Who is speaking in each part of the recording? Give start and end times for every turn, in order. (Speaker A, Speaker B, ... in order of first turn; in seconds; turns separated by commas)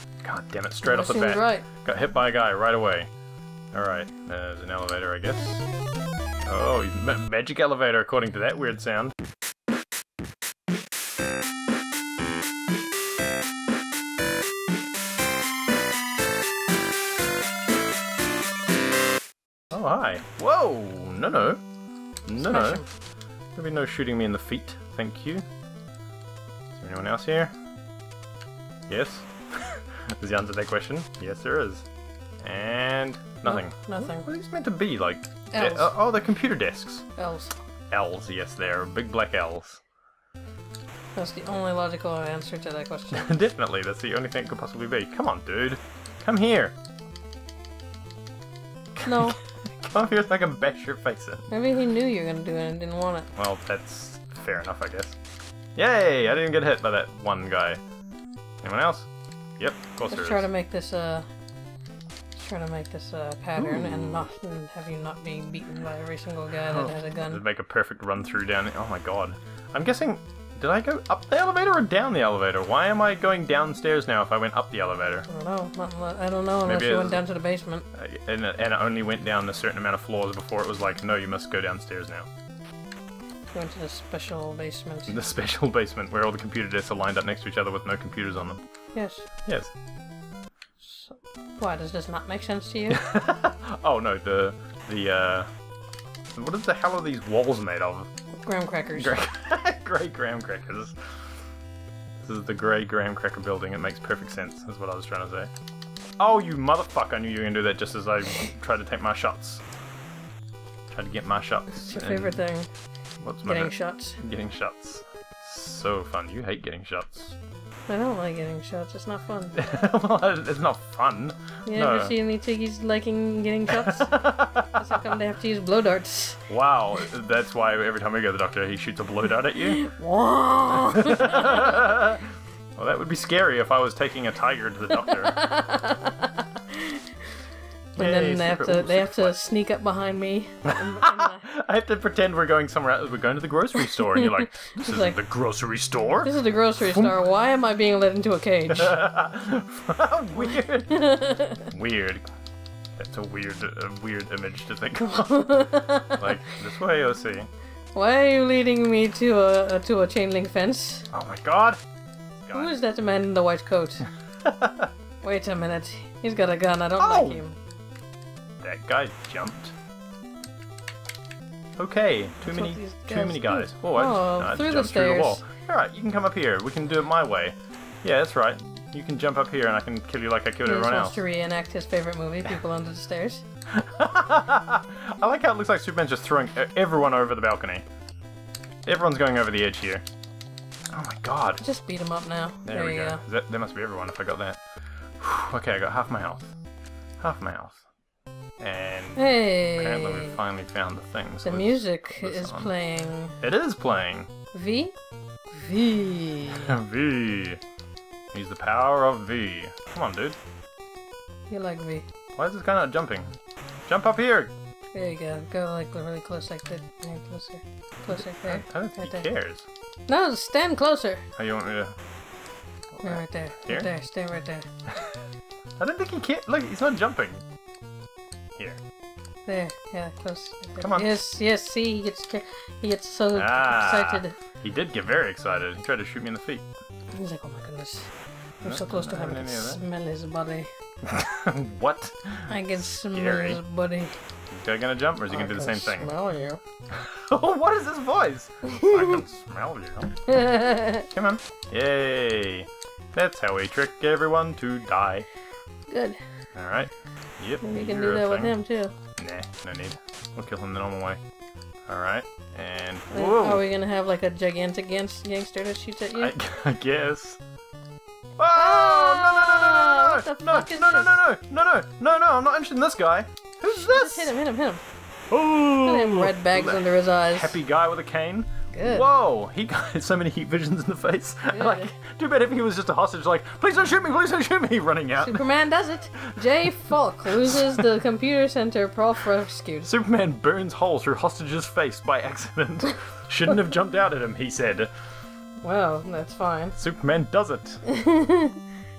Speaker A: 0.2-3.1, Speaker B: 0.8-1.7, Speaker A: 3.7-5.7, Speaker A: 6.4-9.1, Speaker A: 19.7-21.6, Speaker A: 22.2-22.8, Speaker B: 22.4-22.9, Speaker A: 23.5-25.4, Speaker A: 26.7-27.5, Speaker A: 28.9-31.9, Speaker A: 32.4-37.0, Speaker B: 33.4-34.3, Speaker B: 35.5-35.9, Speaker B: 37.1-37.6, Speaker A: 37.9-39.8, Speaker B: 41.1-43.4, Speaker A: 43.1-46.7, Speaker A: 48.9-51.5, Speaker B: 49.0-49.4, Speaker B: 51.5-53.3, Speaker A: 53.4-55.2, Speaker A: 55.8-57.8, Speaker A: 58.6-60.5, Speaker B: 60.1-61.3, Speaker B: 62.3-67.4, Speaker A: 63.5-64.3, Speaker A: 66.7-75.3, Speaker B: 75.3-77.8, Speaker A: 76.6-77.2, Speaker A: 77.9-82.3, Speaker B: 83.5-85.2, Speaker A: 85.1-88.6, Speaker B: 88.9-89.3, Speaker A: 89.4-89.7, Speaker B: 90.8-93.0, Speaker A: 92.9-95.5, Speaker A: 96.3-98.1, Speaker B: 98.4-99.2, Speaker A: 99.0-100.9, Speaker A: 102.2-105.5, Speaker A: 106.2-109.6, Speaker A: 110.9-112.4, Speaker B: 111.8-112.7, Speaker A: 113.2-117.4, Speaker B: 113.4-114.2, Speaker B: 117.9-119.5, Speaker A: 119.5-122.1, Speaker B: 121.7-126.4, Speaker A: 123.8-124.8, Speaker A: 126.5-129.8, Speaker B: 129.7-131.8, Speaker A: 130.9-135.3, Speaker B: 134.9-137.3, Speaker B: 137.9-141.4, Speaker A: 138.0-139.3, Speaker A: 140.7-147.1, Speaker B: 143.7-145.2, Speaker B: 146.2-148.9, Speaker A: 148.7-151.0, Speaker B: 150.4-151.7, Speaker A: 151.7-152.2, Speaker A: 153.0-155.4, Speaker B: 155.0-156.5, Speaker A: 156.2-157.5, Speaker B: 157.9-161.1, Speaker A: 161.1-161.8, Speaker A: 162.4-162.8, Speaker B: 162.5-164.1, Speaker A: 164.4-164.9, Speaker B: 165.2-167.6, Speaker A: 167.0-167.4, Speaker A: 168.6-169.7, Speaker A: 171.8-181.2, Speaker B: 172.4-175.4, Speaker B: 180.6-183.4, Speaker A: 183.7-187.8, Speaker A: 188.8-190.0, Speaker A: 190.9-191.6, Speaker B: 191.6-193.2, Speaker A: 192.7-194.6, Speaker A: 195.2-196.5, Speaker A: 197.2-197.8, Speaker A: 198.6-202.7, Speaker B: 199.2-200.4, Speaker B: 201.4-203.4, Speaker A: 203.4-204.3, Speaker B: 204.5-204.9, Speaker B: 205.5-206.7, Speaker A: 206.5-207.6, Speaker A: 208.3-210.4, Speaker B: 211.5-212.1, Speaker A: 212.3-213.3, Speaker A: 213.9-214.5, Speaker B: 214.9-219.2, Speaker A: 218.1-219.7, Speaker B: 220.1-221.2, Speaker A: 221.4-221.9, Speaker A: 222.9-223.9, Speaker B: 223.0-224.7, Speaker A: 225.8-227.4, Speaker B: 229.4-234.3, Speaker A: 230.8-231.1, Speaker A: 233.3-236.7, Speaker B: 237.1-238.1, Speaker B: 238.6-240.7, Speaker A: 238.6-239.8, Speaker A: 241.0-242.6, Speaker B: 242.5-244.2, Speaker A: 243.1-243.6, Speaker A: 244.5-246.1, Speaker B: 245.3-246.6, Speaker A: 246.9-250.2, Speaker B: 248.7-249.2, Speaker B: 250.3-251.1, Speaker A: 251.1-255.3, Speaker B: 255.9-256.2, Speaker A: 256.6-258.6, Speaker B: 257.6-258.9, Speaker A: 259.2-261.2, Speaker A: 261.9-263.6, Speaker B: 263.1-266.3, Speaker A: 266.1-267.4, Speaker A: 268.4-274.3, Speaker B: 268.5-271.1, Speaker B: 273.6-274.8, Speaker A: 275.3-285.5, Speaker B: 275.8-277.6, Speaker B: 278.7-279.1, Speaker B: 281.5-281.9, Speaker B: 285.1-289.9, Speaker A: 286.1-286.7, Speaker A: 287.2-287.8, Speaker A: 289.8-294.9, Speaker B: 295.6-296.8, Speaker A: 296.8-297.8, Speaker B: 297.8-298.6